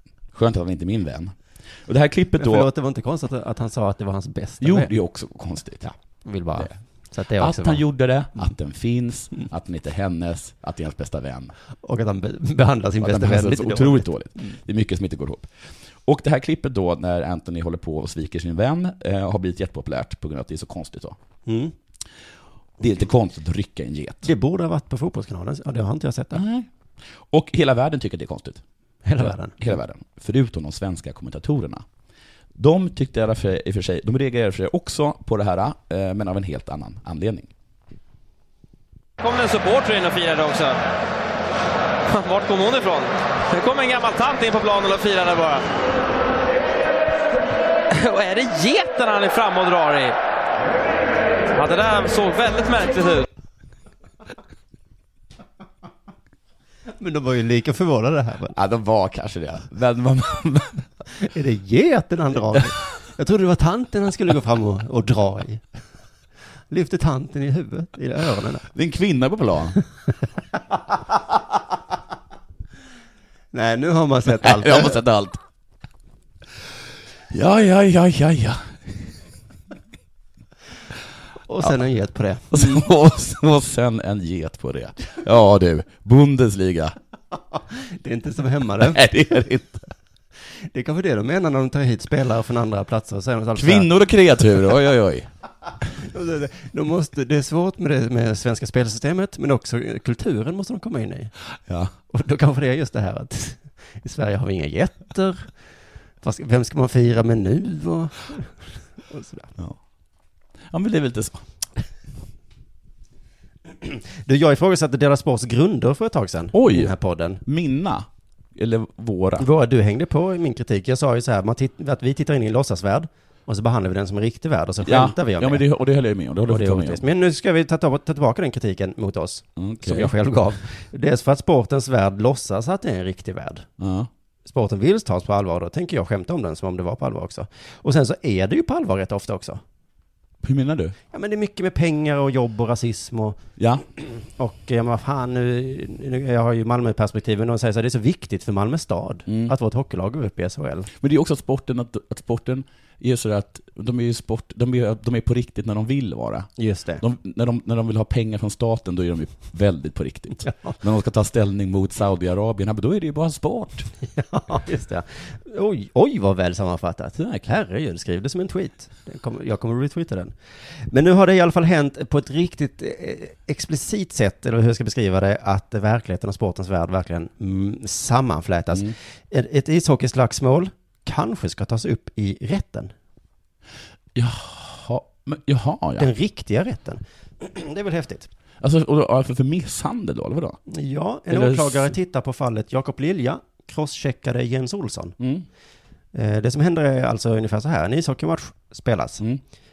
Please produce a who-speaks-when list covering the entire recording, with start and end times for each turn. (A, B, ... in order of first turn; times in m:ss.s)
0:00.3-0:02.7 A
0:02.4-0:04.9 B
0:04.6-0:05.9 A
0:05.8-0:08.5 B
0:07.4-0:11.5 A
0:11.8-0:14.5 B
0:13.0-0:15.5 A
0:16.1-0:21.2 A
0:21.5-0:21.7 B
0:22.8-0:24.3 A
0:24.2-0:26.4 B
0:26.3-0:28.6 A
0:29.0-0:29.8 B
0:29.2-0:31.8 A
0:32.6-0:37.5 A
0:39.2-0:40.8 C
0:42.1-0:45.6 C
0:47.9-0:50.2 C
0:51.5-0:53.3 C
0:57.0-0:58.6 B
0:58.5-1:00.9 A
1:01.2-1:05.6 B
1:06.7-1:08.7 B
1:08.7-1:09.8 A
1:13.5-1:15.0 B
1:14.3-1:15.4 A
1:17.3-1:19.1 A
1:21.5-1:22.8 B
1:22.5-1:27.0 A
1:27.7-1:29.1 B
1:28.8-1:29.8 A
1:30.7-1:33.9 B
1:33.6-1:35.3 A
1:36.0-1:41.3 B
1:41.7-1:41.9 A
1:42.1-1:45.5 B
1:46.2-1:49.5 B
1:50.7-1:51.4 A
1:53.8-1:57.4 B
1:56.5-1:59.5 A
1:59.4-2:05.6 B
2:04.8-2:07.0 A
2:06.5-2:13.7 B
2:09.6-2:10.2 A
2:13.8-2:14.1 A
2:14.5-2:19.6 B
2:20.4-2:21.0 A
2:21.1-2:23.4 B
2:23.6-2:23.8 A
2:24.0-2:30.9 B
2:29.3-2:29.5 A
2:31.0-2:43.9 A
2:36.6-2:37.0 B
2:40.4-2:40.7 B
2:44.1-3:02.9 B
2:47.2-2:47.5 A
3:04.2-3:06.1 A
3:06.0-3:08.3 B
3:08.6-3:10.6 A
3:10.7-3:15.2 B
3:11.3-3:12.0 A
3:15.2-3:15.5 A
3:16.1-3:19.2 B